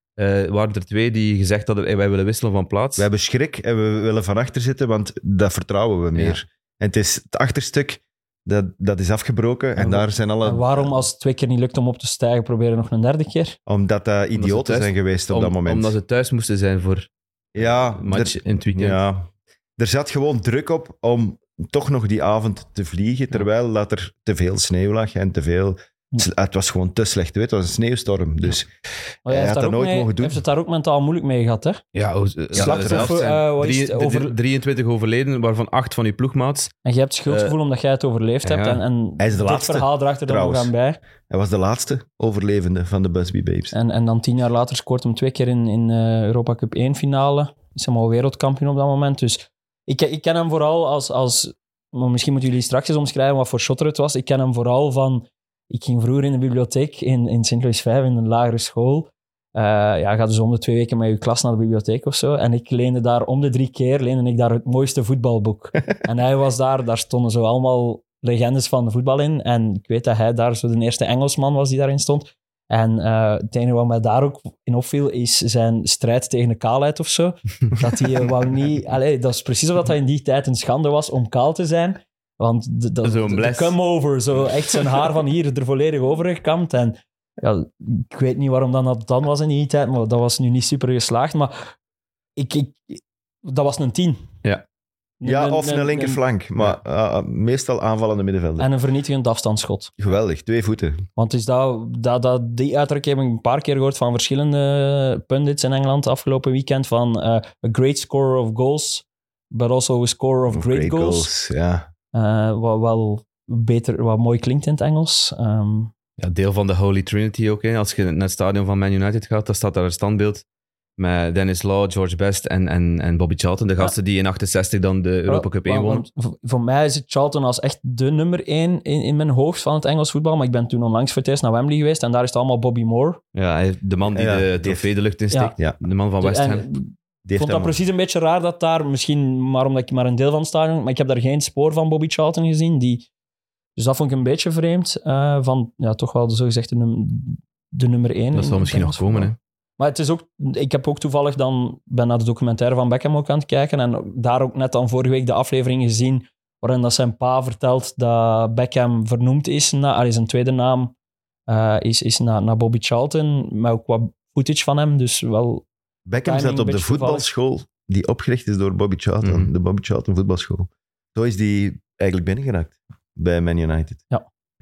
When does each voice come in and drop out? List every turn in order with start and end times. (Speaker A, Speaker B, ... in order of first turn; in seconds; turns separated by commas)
Speaker A: 0.2-3.1, Speaker B: 3.0-11.0, Speaker C: 9.8-13.6, Speaker B: 13.7-15.9, Speaker A: 14.3-19.0, Speaker B: 17.6-28.7, Speaker C: 29.2-31.8, Speaker B: 29.3-30.4, Speaker A: 31.9-36.7, Speaker B: 32.5-33.2, Speaker C: 32.6-34.3, Speaker C: 36.9-41.0, Speaker A: 37.3-37.5, Speaker A: 38.4-38.8, Speaker B: 39.2-40.7, Speaker B: 41.3-43.7, Speaker C: 43.7-91.7, Speaker A: 83.0-83.8, Speaker C: 92.4-94.3, Speaker C: 95.2-96.2, Speaker B: 95.2-98.7, Speaker C: 98.6-99.9, Speaker B: 100.0-101.0, Speaker C: 101.2-111.3, Speaker B: 110.5-111.9, Speaker C: 112.1-115.9, Speaker A: 116.2-120.5, Speaker A: 121.0-126.0, Speaker C: 125.3-133.2, Speaker A: 133.3-136.7, Speaker B: 134.1-134.9, Speaker C: 136.2-143.1, Speaker B: 137.2-137.8, Speaker C: 143.8-160.9, Speaker A: 148.3-149.4, Speaker C: 161.5-165.7, Speaker B: 166.1-174.0, Speaker C: 166.2-167.3, Speaker A: 169.2-169.5